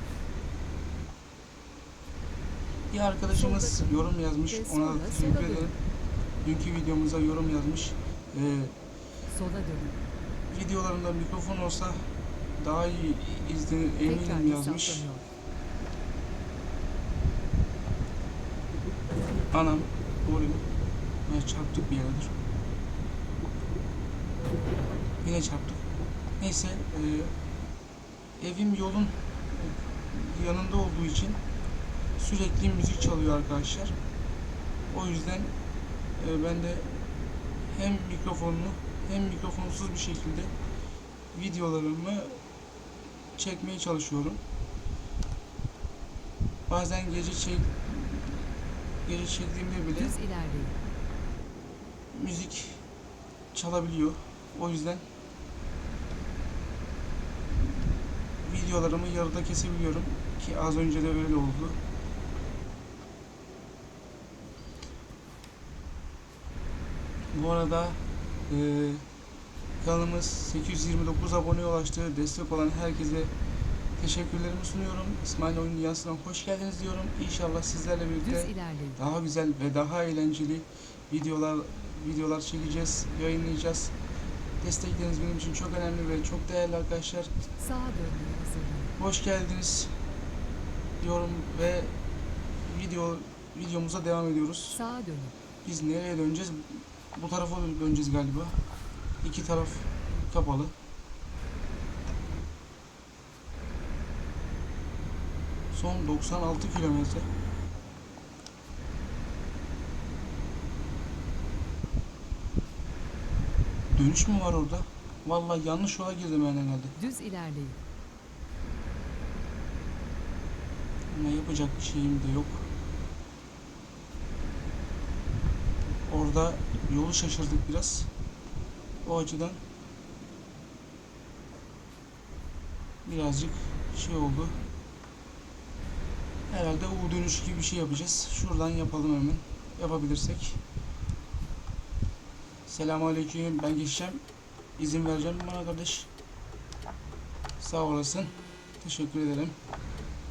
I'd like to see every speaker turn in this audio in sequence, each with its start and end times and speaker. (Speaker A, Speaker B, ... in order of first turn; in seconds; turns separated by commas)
Speaker A: 2.9-5.8, Speaker B: 3.3-5.7, Speaker A: 6.4-8.7, Speaker B: 9.3-9.9, Speaker A: 10.5-12.1, Speaker A: 12.6-15.1, Speaker B: 14.0-15.3, Speaker A: 19.5-20.6, Speaker A: 21.2-22.3, Speaker A: 25.2-25.8, Speaker A: 26.4-27.3, Speaker A: 28.4-31.4, Speaker A: 32.1-33.9, Speaker A: 34.9-35.5, Speaker A: 36.2-37.0, Speaker A: 37.7-40.5, Speaker A: 41.3-42.4, Speaker A: 43.4-44.4, Speaker A: 46.7-48.5, Speaker A: 49.0-50.1, Speaker B: 49.9-50.8, Speaker A: 52.1-52.8, Speaker A: 53.5-55.0, Speaker A: 58.4-61.8, Speaker A: 67.3-69.0, Speaker A: 69.8-73.3, Speaker A: 74.0-83.9, Speaker B: 78.2-79.0, Speaker A: 84.6-87.3, Speaker B: 87.6-88.9, Speaker A: 89.0-89.9, Speaker A: 91.0-91.9, Speaker A: 92.6-94.8, Speaker B: 94.7-95.3, Speaker A: 95.6-98.6, Speaker A: 99.2-100.7, Speaker A: 105.7-107.3, Speaker A: 113.9-116.9, Speaker B: 117.0-117.8, Speaker A: 121.1-122.7, Speaker A: 126.0-128.1, Speaker A: 129.0-129.6, Speaker A: 133.0-134.6, Speaker A: 136.5-140.6, Speaker A: 142.7-144.2, Speaker A: 144.8-146.1, Speaker A: 147.6-149.6